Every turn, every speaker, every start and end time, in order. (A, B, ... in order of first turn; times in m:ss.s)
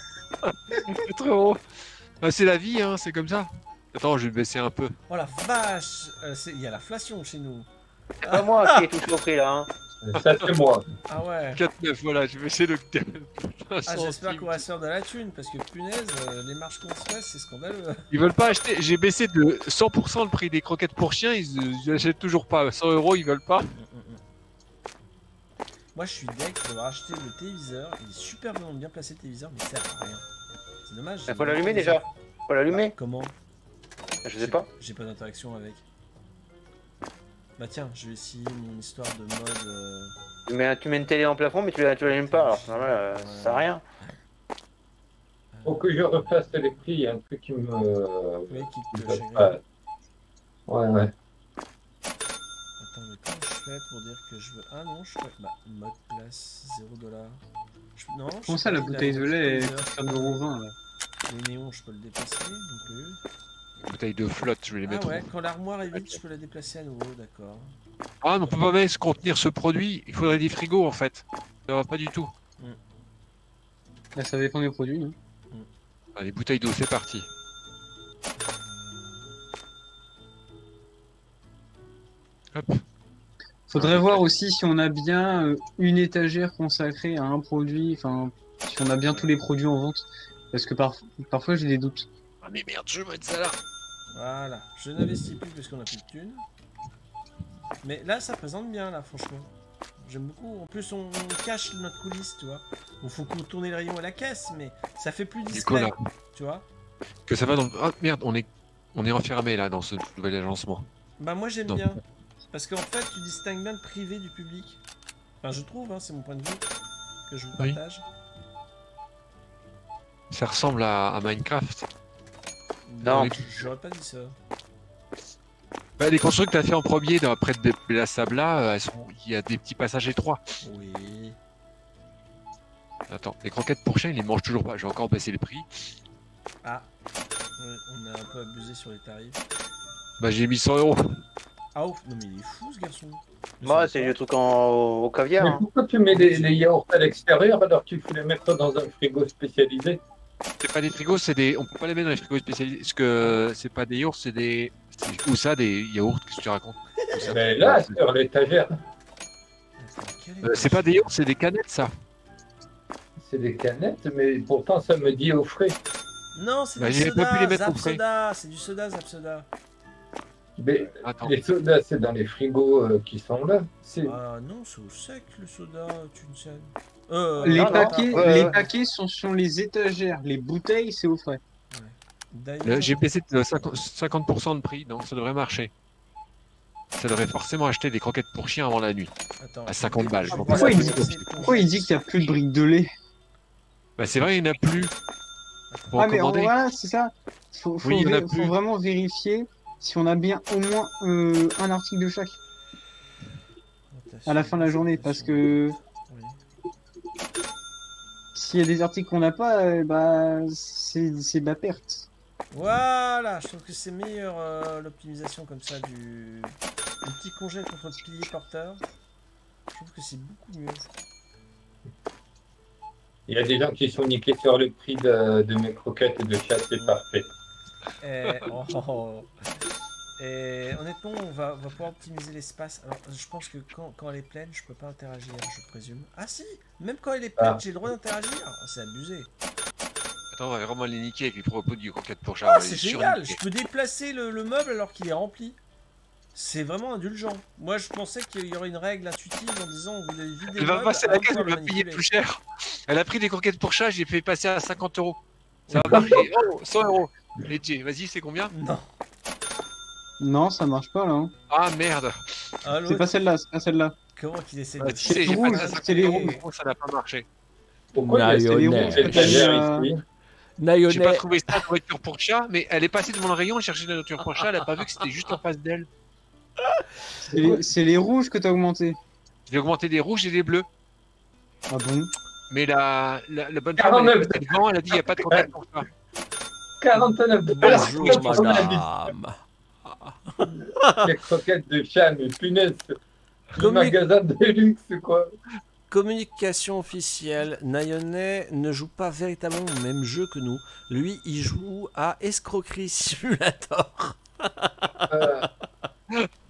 0:00.4-0:05.0 A
0:05.1-0:07.7 B
0:08.2-0:08.8 B
0:08.2-0:09.7 C
0:10.0-0:10.8 D
0:10.1-0:10.5 A
0:11.1-0:11.6 B
0:11.5-0:14.6 A
0:13.9-0:18.0 B
0:18.1-0:23.7 A
0:23.7-0:24.2 B
0:25.9-0:30.2 B
0:30.8-0:32.1 B
0:31.3-0:32.9 C
0:32.7-0:33.3 B
0:34.2-0:34.6 C
0:34.4-0:35.8 B
0:37.6-0:40.1 B
0:40.5-0:43.8 C
0:42.2-0:44.1 B
0:45.5-0:46.4 B
0:45.6-0:49.6 D
0:48.5-0:49.6 B
0:50.7-0:51.1 D
0:52.8-0:57.4 B
0:58.0-1:00.4 B
0:58.5-1:00.7 E
1:01.3-1:03.2 B
1:03.8-1:05.3 A
1:04.8-1:07.8 B
1:05.9-1:06.2 A
1:08.2-1:12.3 A
1:14.1-1:15.1 E
1:16.2-1:17.3 A
1:18.4-1:19.4 B
1:22.5-1:22.8 A
1:23.7-1:32.1 E
1:23.7-1:24.2 A
1:32.4-1:33.6 A
1:34.1-1:36.4 B
1:37.8-1:46.6 B
1:45.5-1:46.0 A
1:47.3-1:50.8 A
1:51.2-1:52.0 B
1:52.5-1:54.8 B
1:55.4-1:56.6 B
1:57.3-1:58.0 B
2:00.3-2:01.9 A
2:02.8-2:04.3 B
2:03.0-2:03.7 A
2:03.0-2:03.4 C
2:06.0-2:10.4 A
2:10.6-2:11.4 B
2:13.1-2:15.7 A
2:17.6-2:19.4 B
2:20.2-2:21.2 A
2:21.7-2:24.1 B
2:23.6-2:25.6 C
2:25.4-2:30.0 D
2:26.1-2:26.6 B
2:30.6-2:38.0 A
2:37.0-2:37.4 B
2:37.2-2:38.7 D
2:39.8-2:41.1 B
2:40.4-2:41.9 A
2:43.2-2:45.8 D
2:46.3-2:49.5 B
2:46.8-2:48.0 A
2:50.6-2:54.2 D
2:51.0-2:51.4 A
2:54.0-2:58.7 B
2:57.4-3:01.4 E
2:57.4-2:58.6 C
3:01.7-3:03.0 B
3:02.6-3:05.7 A
3:07.0-3:09.1 A
3:09.4-3:11.9 B
3:09.7-3:11.4 A
3:10.3-3:11.0 C
3:10.5-3:12.9 E
3:14.0-3:14.9 A
3:15.7-3:16.0 B
3:15.9-3:16.5 A
3:15.9-3:22.4 E
3:17.8-3:18.5 A
3:23.9-3:26.4 B
3:24.2-3:25.8 E
3:28.3-3:32.1 E
3:32.5-3:38.8 B
3:39.7-3:40.9 B
3:43.3-3:47.3 D
3:48.0-3:49.3 B
3:50.2-3:59.3 B
4:00.3-4:03.4 A
4:02.4-4:05.6 B
4:06.3-4:12.0 B
4:10.5-4:15.2 A
4:15.7-4:16.3 B
4:15.7-4:18.5 A
4:15.9-4:16.3 D
4:18.5-4:18.9 B
4:20.2-4:21.3 E
4:21.5-4:22.2 A
4:22.6-4:23.1 B
4:22.8-4:23.9 E
4:24.2-4:26.3 B
4:24.8-4:27.2 A
4:25.0-4:26.4 E
4:27.9-4:30.0 D
4:28.1-4:29.5 B
4:28.3-4:29.9 E
4:30.6-4:31.6 B
4:30.9-4:35.9 A
4:34.2-4:35.0 B
4:36.6-4:37.6 B
4:37.2-4:39.0 E
4:39.5-4:40.6 A
4:41.7-4:42.1 E
4:42.5-4:45.9 A
4:43.8-4:44.6 D
4:45.2-4:45.5 D
4:46.8-4:49.1 D
4:47.0-4:51.1 B
4:47.6-4:48.5 A
4:50.5-4:53.0 D
4:53.6-4:55.3 D
4:53.6-4:54.0 B
4:55.9-5:05.5 B
5:05.1-5:05.5 D